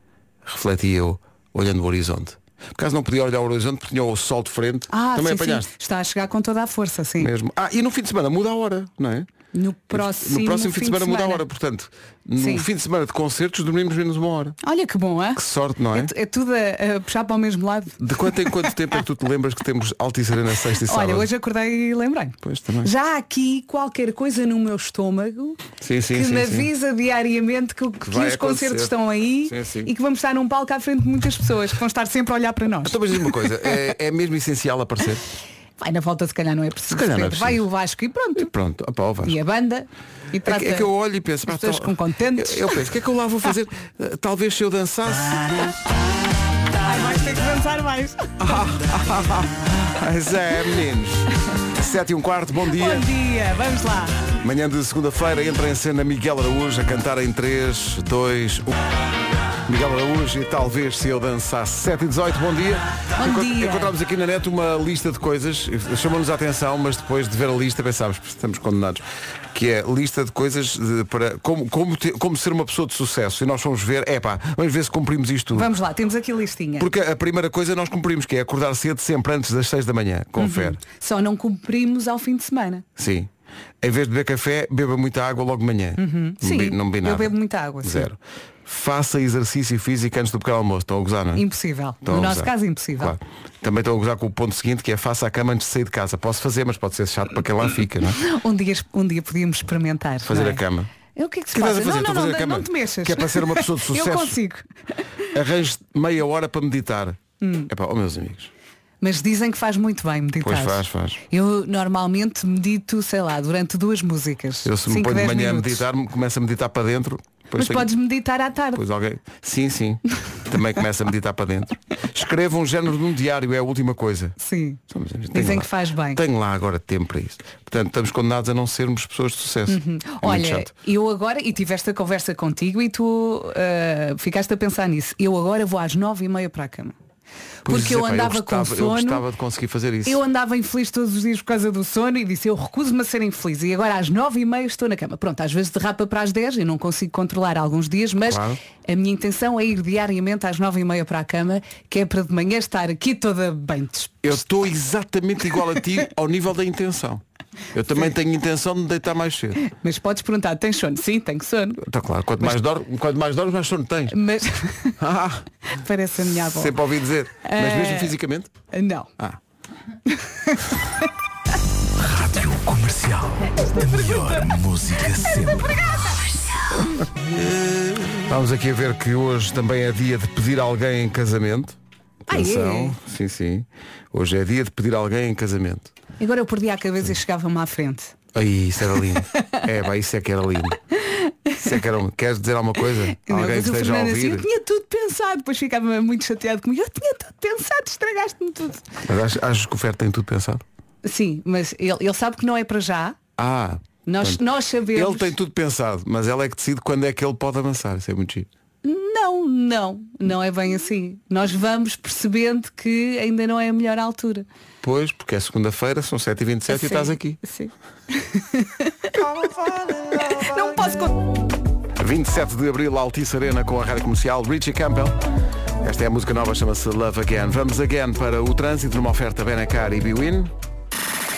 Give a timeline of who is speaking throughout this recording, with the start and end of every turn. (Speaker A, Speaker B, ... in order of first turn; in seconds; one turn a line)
Speaker A: 0.4-5.7
Speaker B: 4.9-7.3
Speaker A: 7.2-9.3
Speaker B: 9.5-11.4
Speaker A: 9.9-14.6
Speaker B: 12.4-12.7
Speaker B: 14.6-15.4
Speaker A: 15.4-16.1
Speaker B: 15.9-18.4
Speaker A: 18.0-21.3
Speaker B: 20.9-25.6
Speaker A: 22.4-22.9
Speaker A: 25.8-26.7
Speaker B: 26.1-32.9
Speaker A: 28.0-29.9
Speaker A: 32.8-35.2
Speaker B: 35.8-38.5
Speaker A: 36.9-37.6
Speaker A: 38.4-39.4
Speaker B: 39.2-40.9
Speaker A: 40.4-45.7
Speaker B: 41.5-42.8
Speaker B: 46.8-48.4
Speaker A: 48.4-53.0
Speaker B: 52.7-54.2
Speaker A: 54.4-58.7
Speaker A: 59.6-75.7
Speaker B: 63.2-63.9
Speaker B: 75.5-76.9
Speaker A: 76.8-80.8
Speaker B: 80.4-82.8
Speaker A: 83.0-83.3
Speaker A: 83.8-91.4
Speaker B: 86.0-88.1
Speaker B: 91.3-93.1
Speaker A: 92.0-98.2
Speaker B: 98.2-100.6
Speaker A: 100.2-100.9
Speaker B: 101.1-104.7
Speaker A: 101.5-104.4
Speaker A: 105.3-108.5
Speaker B: 107.4-107.7
Speaker B: 109.0-115.8
Speaker A: 110.4-111.2
Speaker A: 114.6-117.9
Speaker B: 117.5-118.8
Speaker A: 118.7-124.3
Speaker B: 124.4-124.8
Speaker A: 124.9-130.7
Speaker B: 125.3-126.2
Speaker B: 129.7-136.9
Speaker A: 137.7-140.2
Speaker B: 137.7-139.2
Speaker B: 140.1-154.3
Speaker A: 148.3-148.6
Speaker A: 154.2-157.2
Speaker A: 157.7-159.6
Speaker B: 159.7-161.8
Speaker A: 161.8-164.2
Speaker B: 164.1-165.0
Speaker A: 165.0-165.4
Speaker B: 165.7-166.8
Speaker A: 166.3-168.5
Speaker B: 167.4-168.1
Speaker B: 168.7-169.1
Speaker B: 170.1-170.7
Speaker C: 172.0-175.8
Speaker B: 175.5-176.2
Speaker A: 177.2-181.8
Speaker A: 182.3-185.9
Speaker B: 182.3-182.9
Speaker B: 186.2-188.1
Speaker A: 188.3-190.8
Speaker B: 191.0-191.7
Speaker A: 191.6-194.4
Speaker B: 193.2-198.8
Speaker A: 199.1-200.6
Speaker B: 201.0-203.2
Speaker A: 203.4-204.4
Speaker B: 204.1-205.3
Speaker A: 204.9-208.5
Speaker B: 208.8-214.4
Speaker A: 214.8-217.4
Speaker B: 216.7-219.2
Speaker A: 219.4-219.7
Speaker B: 220.3-221.2
Speaker A: 222.0-225.2
Speaker A: 225.8-230.5